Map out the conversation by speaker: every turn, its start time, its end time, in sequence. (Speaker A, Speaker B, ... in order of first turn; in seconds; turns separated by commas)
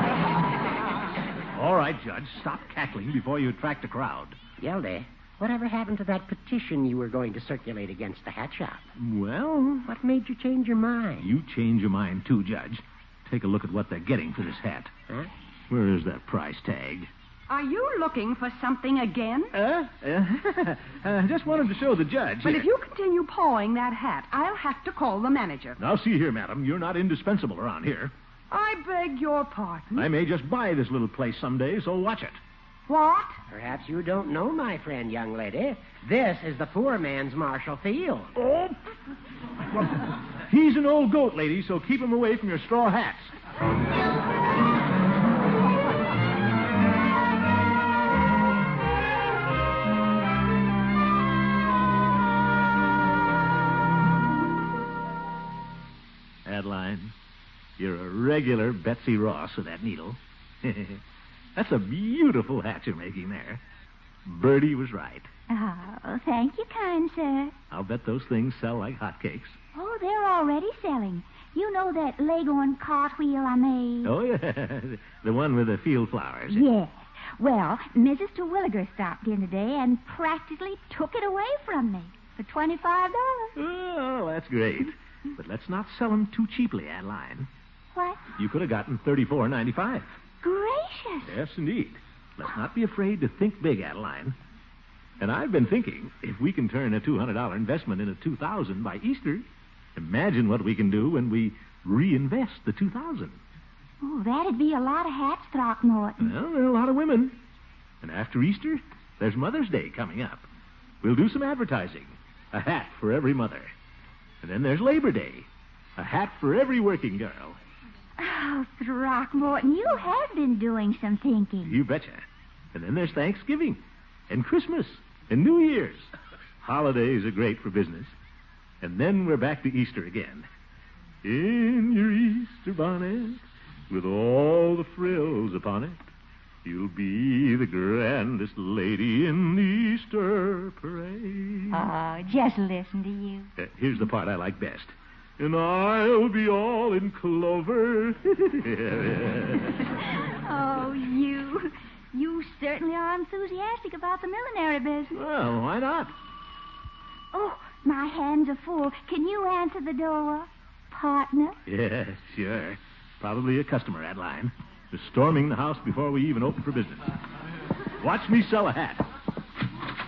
Speaker A: 1.5-4.4, Speaker B: 4.6-8.8, Speaker A: 9.0-9.9, Speaker B: 9.9-11.3, Speaker A: 11.2-14.9, Speaker A: 15.7-17.1, Speaker C: 17.5-19.5, Speaker A: 19.5-22.7, Speaker C: 22.4-25.8, Speaker A: 25.8-28.1, Speaker C: 28.5-30.1, Speaker A: 29.9-32.4, Speaker C: 32.9-33.4, Speaker B: 33.5-38.3, Speaker A: 38.4-38.8, Speaker A: 40.5-43.3, Speaker A: 56.5-57.1, Speaker A: 57.8-61.0, Speaker A: 61.5-63.6, Speaker A: 64.3-65.3, Speaker D: 65.5-67.5, Speaker A: 67.7-69.6, Speaker D: 69.7-74.1, Speaker A: 74.0-76.7, Speaker D: 76.5-83.5, Speaker A: 83.5-87.5, Speaker D: 87.9-88.2, Speaker A: 88.4-90.2, Speaker D: 90.4-91.3, Speaker A: 91.2-94.3, Speaker A: 95.2-103.4, Speaker D: 104.0-106.3, Speaker A: 106.2-107.4, Speaker A: 108.0-110.5, Speaker A: 111.0-113.7, Speaker A: 114.4-117.6, Speaker D: 118.2-121.8, Speaker A: 121.7-126.1, Speaker A: 126.6-128.2, Speaker A: 128.8-130.5, Speaker A: 131.2-136.1, Speaker A: 136.7-141.8, Speaker D: 141.7-143.5, Speaker A: 143.6-149.8, Speaker D: 150.0-155.2, Speaker A: 155.1-156.1, Speaker D: 157.3-161.6, Speaker A: 161.7-167.1, Speaker A: 168.0-169.1